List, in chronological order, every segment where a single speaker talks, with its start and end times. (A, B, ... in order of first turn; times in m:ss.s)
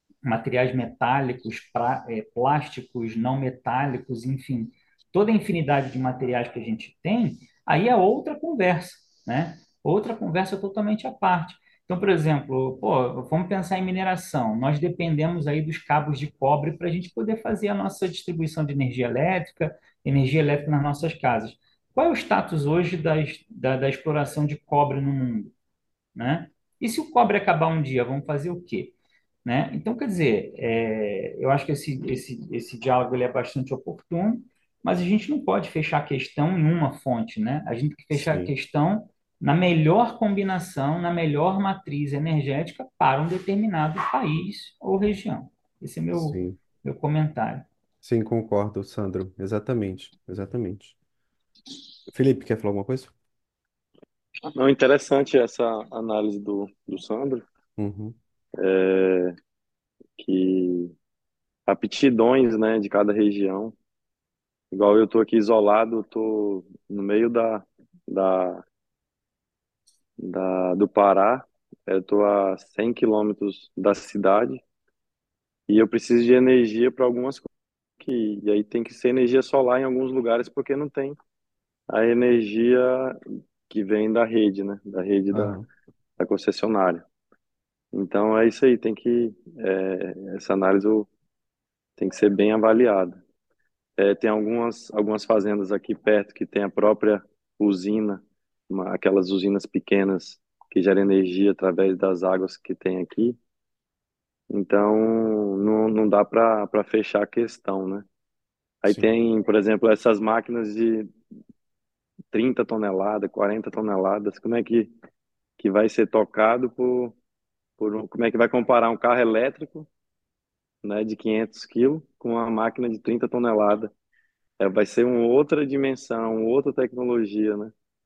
0:00.2-0:25.5 A
0:26.2-0:28.9 A
0:29.4-0:47.7 A
0:38.1-0:38.5 B
0:46.1-0:46.6 B
0:48.0-0:51.0 B
0:52.1-0:53.1 B
0:54.5-0:57.4 C
0:57.8-0:58.2 B
0:58.6-0:59.4 C
1:00.2-1:01.0 C
1:01.7-1:03.8 C
1:04.7-1:08.6 C
1:10.2-1:14.6 C
1:15.7-1:17.5 C
1:18.0-1:21.2 C
1:21.9-1:25.6 C
1:25.3-1:25.7 B
1:26.2-1:27.0 C
1:27.9-1:31.1 C
1:32.0-1:33.2 C
1:34.0-1:43.4 C
1:44.5-1:48.1 C
1:48.8-1:51.1 C
1:52.3-1:54.9 C
1:55.6-1:57.2 C
1:57.8-1:59.9 C
2:00.8-2:03.9 C
2:04.6-2:07.7 C